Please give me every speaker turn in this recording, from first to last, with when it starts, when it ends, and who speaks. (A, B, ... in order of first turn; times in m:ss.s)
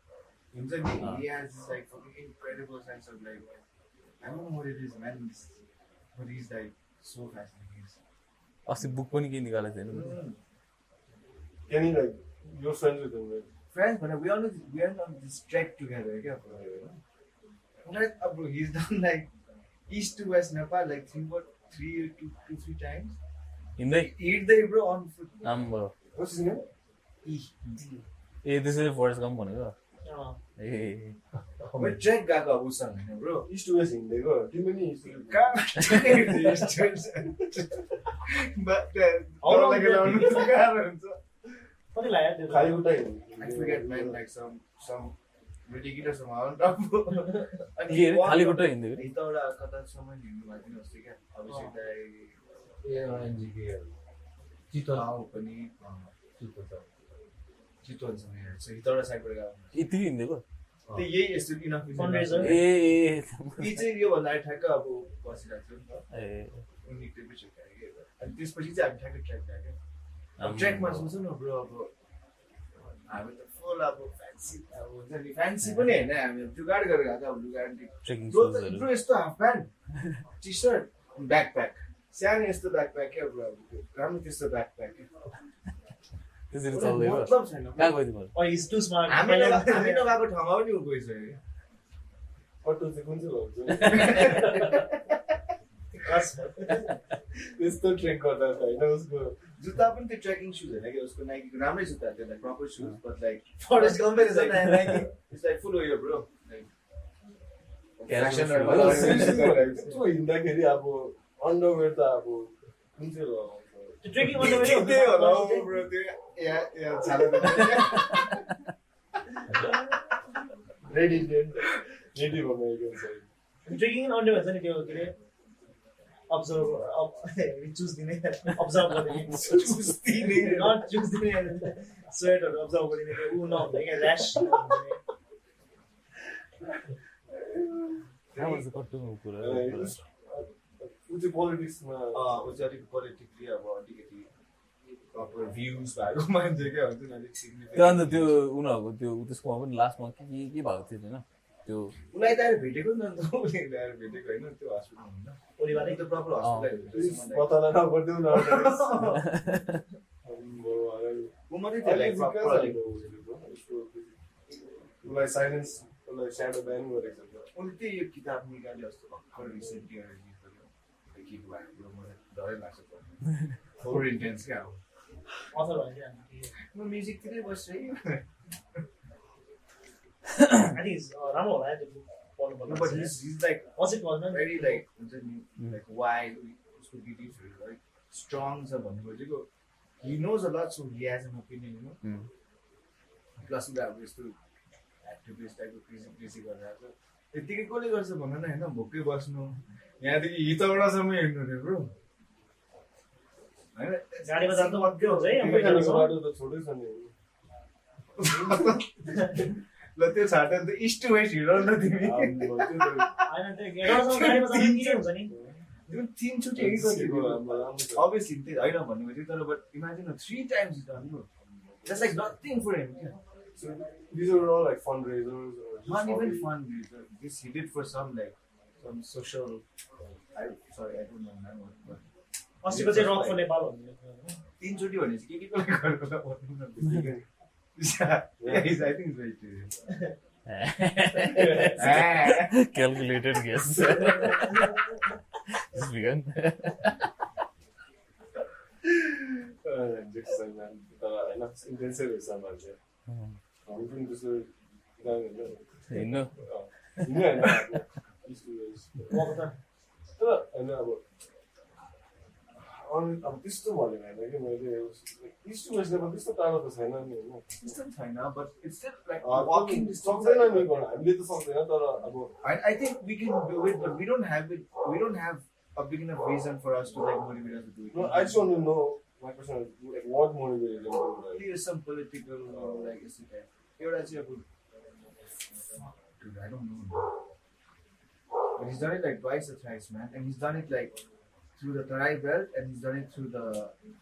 0:00.5-0:03.5 A
0:04.2-0:05.6 A
0:06.1-0:08.0 A
0:08.6-0:10.1 B
0:09.9-0:10.4 A
0:11.7-0:13.5 C
0:13.7-0:16.9 A
0:16.5-0:17.0 C
0:17.8-0:19.3 A
0:19.9-0:23.2 A
0:23.8-0:24.1 B
0:23.9-0:25.6 A
0:25.4-0:25.9 B
0:26.1-0:26.6 C
0:27.2-0:27.8 A
0:28.4-0:29.7 B
0:30.0-0:30.4 D
0:30.6-0:31.2 B
0:31.6-0:32.0 C
0:31.8-0:33.5 A
0:33.5-0:35.5 C
0:35.1-0:41.2 A
0:39.4-0:40.5 D
0:41.9-0:42.9 D
0:42.5-0:44.2 C
0:43.4-0:45.1 A
0:45.7-0:52.4 A
0:47.8-0:49.0 B
0:51.5-0:51.7 D
0:52.8-0:53.9 B
0:54.7-0:55.1 B
0:54.9-0:56.1 A
0:56.4-0:56.9 B
0:57.8-0:59.8 A
0:59.7-1:01.0 B
1:00.9-1:02.7 A
1:02.0-1:02.6 D
1:02.3-1:03.8 B
1:03.6-1:06.0 A
1:06.1-1:06.6 B
1:06.8-1:09.8 A
1:10.4-1:11.1 B
1:10.4-1:11.9 A
1:13.1-1:19.7 A
1:18.0-1:18.9 B
1:20.4-1:25.1 A
1:26.5-1:28.3 B
1:26.7-1:28.0 A
1:28.3-1:30.1 D
1:29.0-1:31.4 A
1:32.6-1:34.8 C
1:33.7-1:35.3 A
1:36.0-1:37.0 D
1:37.3-1:39.4 C
1:39.6-1:46.7 A
1:43.6-1:45.0 D
1:44.6-1:45.0 B
1:48.0-1:50.0 A
1:48.0-1:49.5 B
1:48.2-1:54.7 C
1:54.0-1:55.7 D
1:54.4-1:58.4 A
1:57.8-1:58.3 B
2:00.8-2:03.3 C
2:03.6-2:05.1 D
2:06.3-2:15.0 D
2:09.1-2:09.9 B
2:09.4-2:10.9 A
2:17.4-2:17.9 C
2:18.3-2:18.6 A
2:18.3-2:20.0 B
2:19.4-2:22.3 C
2:22.1-2:24.3 A
2:25.1-2:28.3 A
2:27.7-2:31.9 B
2:32.1-2:37.6 A
2:35.6-2:36.0 D
2:36.4-2:36.9 B
2:36.9-2:39.2 C
2:38.3-2:39.3 A
2:39.1-2:39.8 B
2:40.2-2:44.2 C
2:41.5-2:42.8 A
2:45.0-2:47.5 C
2:47.5-2:53.2 A
2:53.8-2:54.8 A
2:55.5-2:56.5 D
2:56.7-2:58.2 A
3:00.7-3:03.2 D
3:02.6-3:03.7 A
3:03.7-3:04.8 D
3:04.2-3:09.5 A
3:10.0-3:12.0 A
3:12.0-3:12.3 B
3:13.4-3:14.4 A
3:15.0-3:21.9 A
3:23.7-3:26.1 A
3:24.2-3:26.2 D
3:25.3-3:27.1 C
3:28.2-3:33.3 A
3:32.0-3:33.1 C
3:33.3-3:35.3 D
3:33.8-3:35.0 A
3:35.3-3:35.6 C
3:35.9-3:41.3 A
3:36.6-3:38.1 C
3:41.8-3:42.2 C
3:41.8-3:43.2 A
3:43.6-3:46.5 C
3:45.8-3:49.6 A
3:50.3-3:52.0 A
3:52.6-3:54.4 D
3:52.7-3:53.4 C
3:54.6-3:57.1 A
3:56.8-3:57.2 C
3:57.8-3:59.7 A
3:58.4-3:58.8 C
4:00.4-4:04.8 B
4:01.2-4:02.0 C
4:01.6-4:02.6 A
4:04.2-4:04.7 D
4:05.5-4:07.1 B
4:08.8-4:12.8 C
4:13.0-4:13.4 B
4:13.6-4:19.3 C
4:15.9-4:16.3 B
4:16.9-4:17.8 B
4:19.1-4:19.6 D
4:20.2-4:21.0 C
4:22.6-4:27.8 C
4:27.6-4:30.8 A
4:29.2-4:32.3 C
4:32.4-4:38.6 A
4:37.9-4:41.5 C
4:41.3-4:44.4 A
4:42.5-4:42.9 C
4:45.8-4:47.1 A
4:48.6-4:51.0 A
4:51.6-4:53.7 A